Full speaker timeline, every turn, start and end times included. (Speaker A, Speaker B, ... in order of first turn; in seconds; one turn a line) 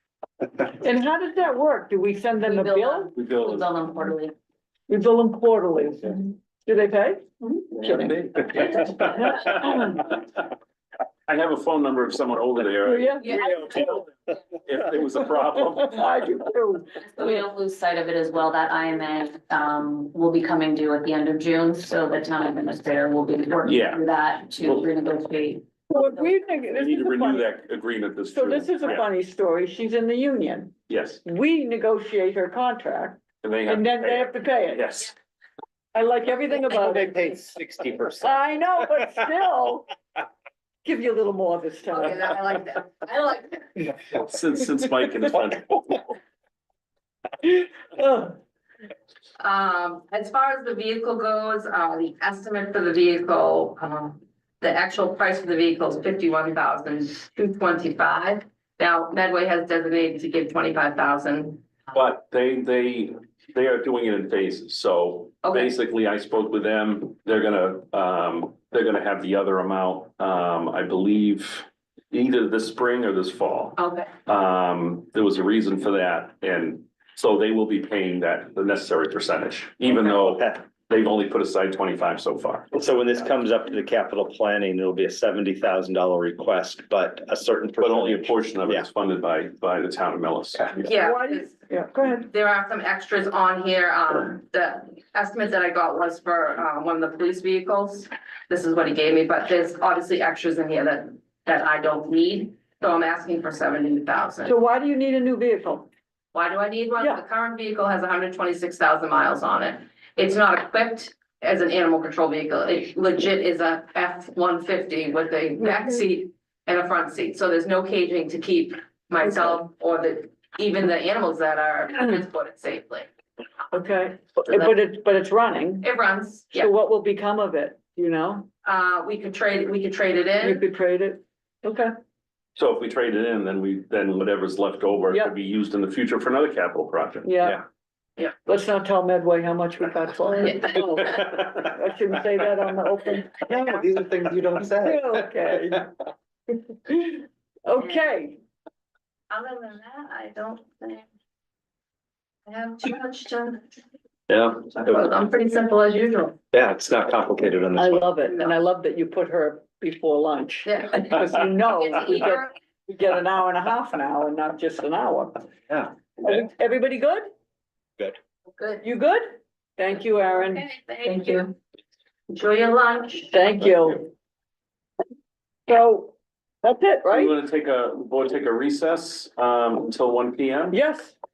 Speaker A: 0.8-3.1
Speaker B: 2.4-4.3
Speaker C: 3.1-3.6
Speaker A: 4.9-10.1
Speaker C: 7.8-9.7
Speaker C: 11.3-14.0
Speaker A: 12.8-13.9
Speaker C: 14.6-16.1
Speaker A: 15.7-17.4
Speaker B: 17.0-26.3
Speaker C: 23.6-24.0
Speaker A: 25.9-27.5
Speaker C: 26.7-29.0
Speaker A: 28.3-35.0
Speaker C: 30.9-31.2
Speaker C: 33.4-35.1
Speaker A: 35.9-37.4
Speaker D: 36.7-39.0
Speaker A: 38.2-39.9
Speaker A: 40.8-42.3
Speaker E: 41.9-43.9
Speaker C: 44.1-46.1
Speaker A: 47.9-48.3
Speaker E: 49.4-61.6
Speaker C: 61.9-82.7
Speaker E: 65.4-65.7
Speaker E: 73.8-74.1
Speaker D: 80.2-80.6
Speaker D: 82.7-88.9
Speaker C: 87.8-90.9
Speaker E: 90.9-91.5
Speaker A: 91.0-92.2
Speaker E: 92.1-104.5
Speaker A: 104.4-105.9
Speaker E: 106.3-123.1
Speaker A: 107.0-107.2
Speaker A: 123.7-125.9
Speaker E: 125.8-126.7
Speaker A: 126.5-128.5
Speaker E: 128.6-130.6
Speaker A: 130.4-131.9
Speaker C: 132.5-137.3
Speaker A: 135.1-135.3
Speaker A: 137.2-137.6
Speaker A: 138.4-143.8
Speaker D: 143.4-145.2
Speaker A: 144.6-145.9
Speaker A: 146.9-148.4
Speaker E: 149.3-151.0
Speaker E: 152.5-153.6
Speaker D: 154.3-155.0
Speaker E: 154.8-156.3
Speaker D: 156.5-158.0
Speaker A: 157.7-165.4
Speaker E: 160.6-162.4
Speaker A: 166.2-167.3
Speaker A: 168.8-170.6
Speaker E: 170.5-171.5
Speaker E: 172.3-173.3
Speaker A: 173.3-174.1
Speaker A: 175.7-177.3
Speaker C: 177.1-180.8
Speaker A: 180.7-181.1